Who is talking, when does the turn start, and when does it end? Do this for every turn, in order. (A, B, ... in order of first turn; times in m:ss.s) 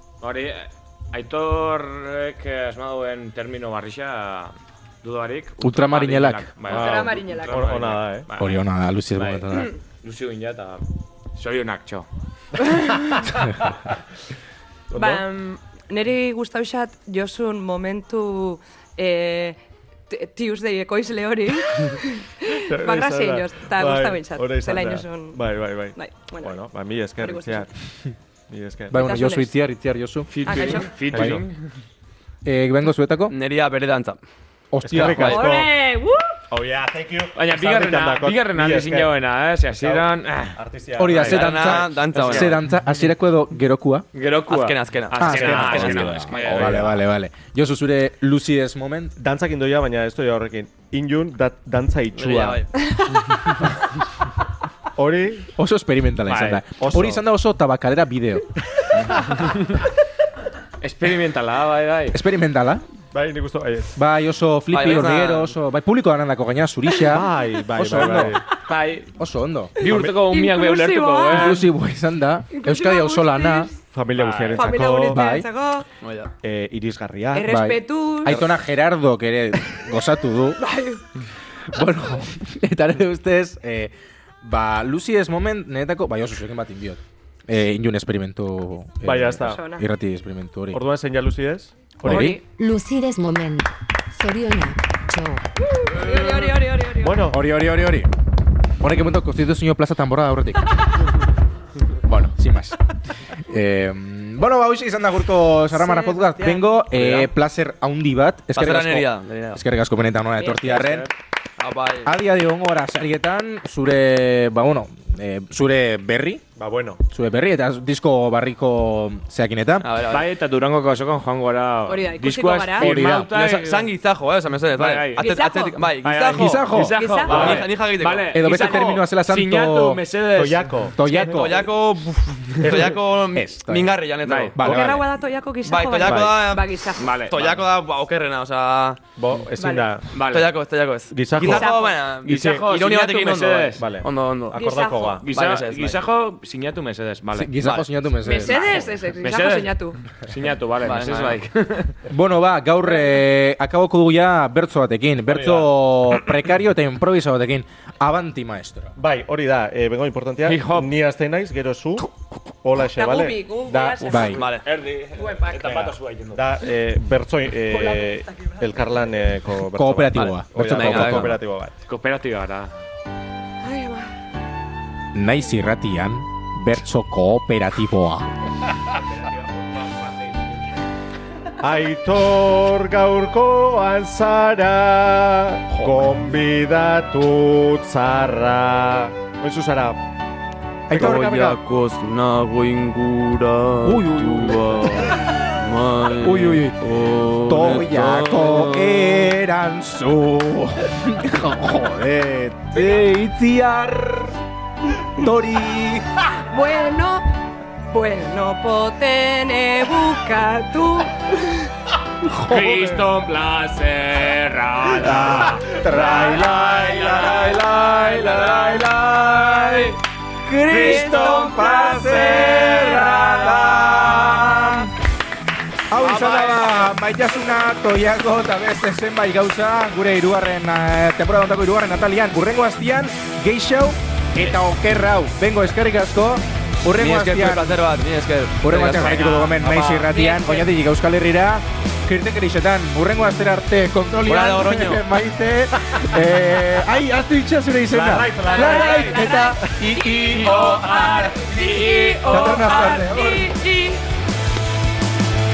0:00.2-0:08.6 A
0:05.6-0:06.5 B
0:06.7-0:08.3 C
0:06.7-0:07.7 D
0:08.4-0:09.7 B
0:09.1-0:09.4 A
0:10.0-0:10.8 A
0:11.3-0:12.1 A
0:14.9-0:15.2 C
0:14.9-0:26.6 D
0:22.7-0:27.7 C
0:27.2-0:27.6 D
0:28.5-0:29.0 C
0:28.9-0:31.4 B
0:28.9-0:29.5 D
0:30.3-0:31.6 A
0:30.4-0:30.9 D
0:31.1-0:31.4 C
0:32.4-0:33.3 B
0:33.3-0:34.2 E
0:34.7-0:35.5 B
0:34.8-0:35.7 C
0:35.0-0:35.2 E
0:35.1-0:36.4 D
0:36.5-0:39.1 C
0:37.4-0:40.6 A
0:39.7-0:42.5 C
0:41.0-0:44.0 B
0:41.2-0:42.6 E
0:44.1-0:47.0 A
0:44.5-0:46.7 E
0:45.2-0:49.1 B
0:46.3-0:47.0 C
0:49.2-0:52.6 C
0:52.1-0:52.7 E
0:55.0-0:55.5 C
0:55.6-0:58.5 B
0:56.3-0:56.6 A
0:56.8-0:57.2 C
0:59.0-0:59.7 A
1:00.8-1:02.2 A
1:02.1-1:02.8 B
1:03.1-1:03.9 C
1:04.0-1:08.4 B
1:04.7-1:05.5 E
1:07.0-1:08.4 C
1:08.6-1:09.1 A
1:09.2-1:10.2 B
1:09.7-1:11.6 A
1:09.8-1:11.7 D
1:11.2-1:13.7 B
1:12.5-1:13.8 D
1:13.9-1:15.2 C
1:14.1-1:14.7 A
1:14.6-1:15.9 D
1:14.8-1:15.5 B
1:16.0-1:16.3 E
1:16.4-1:17.6 C
1:17.3-1:18.4 D
1:17.4-1:20.6 B
1:20.6-1:21.0 D
1:21.7-1:30.8 B
1:29.0-1:29.6 C
1:29.4-1:29.8 D
1:30.7-1:32.4 C
1:32.0-1:32.4 B
1:32.1-1:32.4 D
1:32.2-1:35.4 F
1:35.6-1:37.3 D
1:36.1-1:36.4 E
1:37.0-1:37.4 C
1:37.3-1:38.1 B
1:38.8-1:40.8 B
1:42.0-1:42.8 B
1:43.4-1:51.1 B
1:45.7-1:46.8 D
1:48.5-1:49.6 E
1:50.6-1:51.1 A
1:51.6-1:52.1 E
1:52.0-1:56.4 B
1:56.6-1:57.0 C
1:57.1-1:59.9 B
1:59.8-2:00.2 E
2:00.1-2:03.9 A
2:01.8-2:02.9 D
2:02.8-2:03.3 B
2:03.0-2:06.7 E
2:04.7-2:05.4 A
2:05.2-2:05.9 D
2:06.0-2:11.5 A
2:06.3-2:07.6 B
2:06.9-2:07.6 D
2:07.2-2:08.4 E
2:08.3-2:10.0 B
2:10.3-2:11.0 C
2:11.0-2:11.6 B
2:11.2-2:14.6 E
2:12.6-2:13.0 C
2:13.3-2:14.0 B
2:14.2-2:14.5 A
2:14.5-2:15.0 B
2:14.6-2:17.1 D
2:14.6-2:15.0 C
2:15.6-2:19.0 E
2:16.0-2:16.3 C
2:17.0-2:17.6 A
2:19.2-2:20.2 C
2:19.6-2:19.9 D
2:20.1-2:20.5 A
2:20.2-2:24.8 E
2:21.1-2:21.7 C
2:21.4-2:22.0 D
2:22.2-2:23.8 A
2:22.3-2:22.6 C
2:23.8-2:25.3 C
2:24.5-2:25.2 D
2:25.2-2:27.6 A
2:25.3-2:26.0 E
2:27.3-2:28.8 B
2:27.6-2:27.9 E
2:28.2-2:30.0 D
2:29.1-2:31.9 A
2:30.8-2:31.4 E
2:32.1-2:38.9 B
2:35.3-2:35.7 C
2:39.0-2:43.4 C
2:40.4-2:40.9 A
2:43.0-2:44.6 D
2:43.7-2:44.4 B
2:44.2-2:44.7 E
2:44.6-2:46.5 A
2:45.2-2:45.8 D
2:45.6-2:51.7 C
2:47.7-2:48.6 D
2:49.7-2:51.4 B
2:50.1-2:51.4 E
2:51.9-2:52.7 A
2:53.6-2:54.1 D
2:55.1-2:58.3 B
2:59.3-3:00.2 A
3:01.6-3:10.0 C
3:05.7-3:06.1 B
3:10.9-3:11.6 B
3:10.9-3:19.2 E
3:13.8-3:15.2 B
3:16.2-3:16.9 B
3:17.4-3:24.3 B
3:25.0-3:26.2 B
3:26.5-3:27.2 D
3:27.9-3:31.7 D
3:32.4-3:36.3 A
3:32.5-3:33.0 C
3:35.0-3:38.6 C
3:36.0-3:36.5 B
3:37.1-3:37.6 E
3:37.6-3:39.9 B
3:38.1-3:39.9 E
3:40.4-3:44.9 B
3:40.8-3:43.3 E
3:40.9-3:41.5 A
3:45.9-3:57.8 B
3:46.1-3:46.4 E
3:46.2-3:46.6 A
3:57.0-4:00.0 E
3:58.6-4:10.6 B
3:59.0-3:59.6 A
4:00.1-4:00.7 D
4:04.2-4:05.0 E
4:07.9-4:11.3 C
4:08.4-4:14.0 D
4:10.5-4:12.7 A
4:12.3-4:13.5 B